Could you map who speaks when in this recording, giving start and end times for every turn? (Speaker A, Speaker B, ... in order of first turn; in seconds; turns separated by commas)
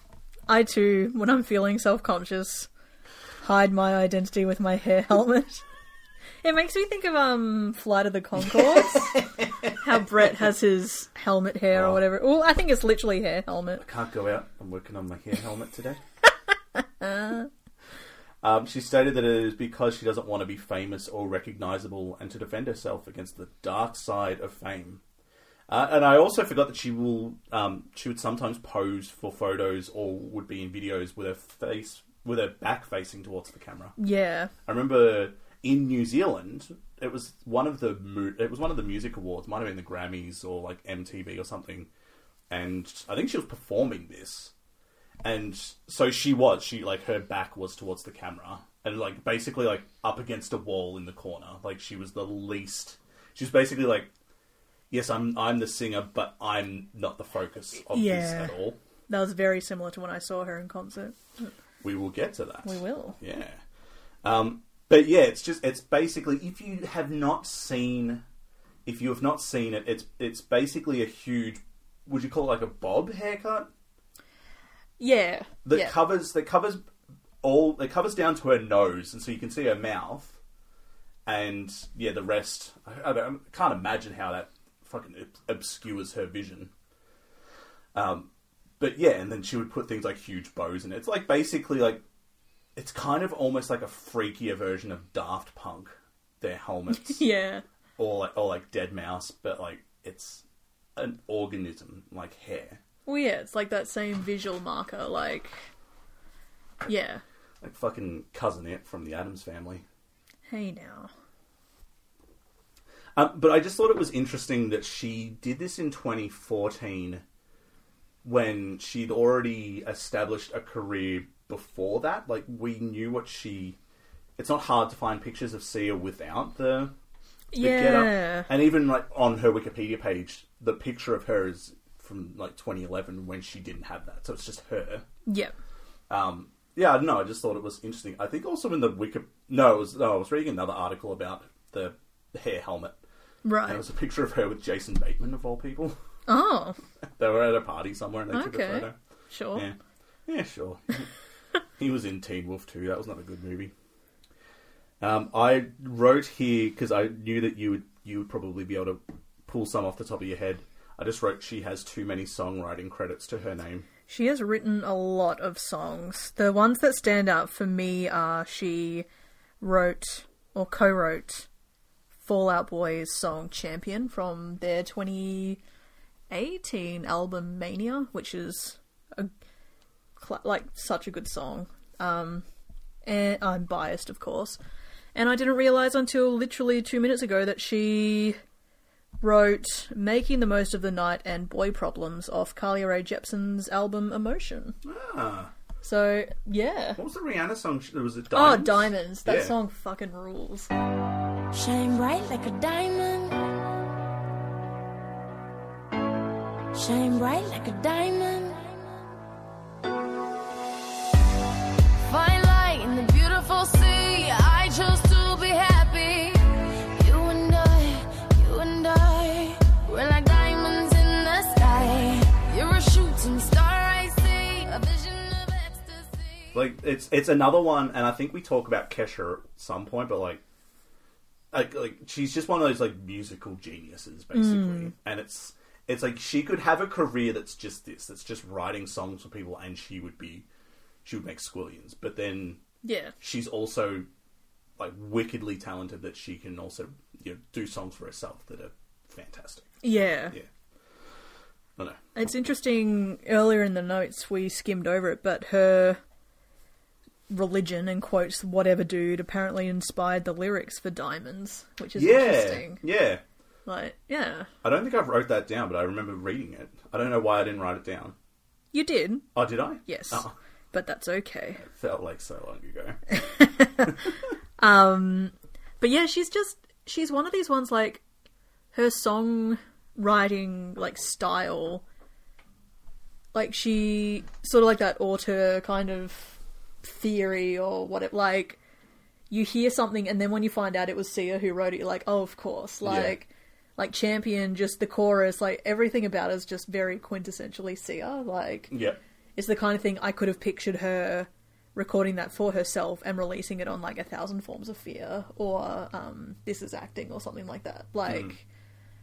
Speaker A: 0.5-2.7, Speaker A: 3.4-5.6, Speaker A: 6.4-9.2, Speaker B: 8.4-10.0, Speaker A: 9.8-13.8, Speaker B: 11.7-12.0, Speaker B: 13.8-16.0, Speaker A: 16.8-17.5, Speaker B: 18.4-25.0, Speaker B: 25.7-33.9, Speaker A: 34.0-34.5, Speaker B: 34.6-41.9, Speaker B: 42.5-44.5, Speaker B: 45.2-54.1, Speaker B: 54.9-58.8, Speaker A: 57.8-58.6, Speaker A: 59.1-61.5, Speaker B: 61.8-63.6, Speaker A: 62.6-63.2, Speaker B: 64.2-68.2, Speaker B: 68.8-73.7, Speaker A: 75.0-76.0, Speaker B: 75.7-76.8, Speaker B: 77.4-80.4, Speaker B: 81.3-86.7, Speaker B: 87.9-92.0, Speaker B: 92.8-97.2, Speaker A: 96.9-97.6, Speaker B: 98.0-100.4, Speaker B: 101.0-102.8, Speaker A: 103.1-105.6, Speaker A: 106.9-107.2, Speaker B: 107.6-109.8, Speaker A: 110.5-111.1, Speaker B: 113.2-117.2, Speaker B: 118.2-123.8, Speaker B: 124.4-126.9, Speaker A: 127.5-128.5, Speaker B: 127.5-135.1, Speaker A: 135.3-135.5, Speaker B: 136.1-143.0, Speaker A: 143.4-143.8, Speaker B: 143.7-146.0, Speaker A: 146.3-146.8, Speaker B: 147.2-149.0, Speaker A: 148.3-149.7, Speaker B: 149.5-151.1, Speaker B: 151.8-153.7, Speaker B: 155.0-163.9, Speaker A: 164.1-169.1, Speaker A: 169.6-171.5, Speaker A: 172.2-175.6, Speaker A: 176.3-179.3, Speaker A: 180.2-182.4, Speaker A: 183.1-184.6, Speaker A: 185.2-188.4, Speaker A: 189.2-194.8, Speaker B: 194.8-195.5, Speaker A: 195.8-197.0, Speaker B: 197.0-199.6, Speaker A: 198.3-200.7, Speaker C: 201.5-203.7, Speaker C: 206.7-208.9, Speaker C: 212.1-226.6, Speaker B: 226.5-230.4, Speaker B: 231.5-240.5, Speaker A: 234.3-234.9, Speaker B: 241.1-242.6, Speaker A: 242.8-243.1, Speaker B: 243.2-244.1, Speaker B: 244.8-250.5, Speaker A: 249.8-250.4, Speaker A: 252.2-256.0, Speaker A: 257.3-262.8, Speaker B: 261.9-263.2, Speaker A: 263.7-264.5, Speaker B: 264.6-268.1, Speaker A: 268.7-269.3, Speaker B: 269.4-270.3, Speaker A: 269.9-271.6, Speaker B: 271.6-273.0, Speaker A: 273.1-278.0, Speaker A: 278.7-281.8, Speaker A: 283.3-288.6, Speaker A: 289.3-298.7, Speaker B: 292.8-293.2, Speaker B: 298.7-299.0, Speaker A: 299.4-308.4, Speaker B: 308.1-308.4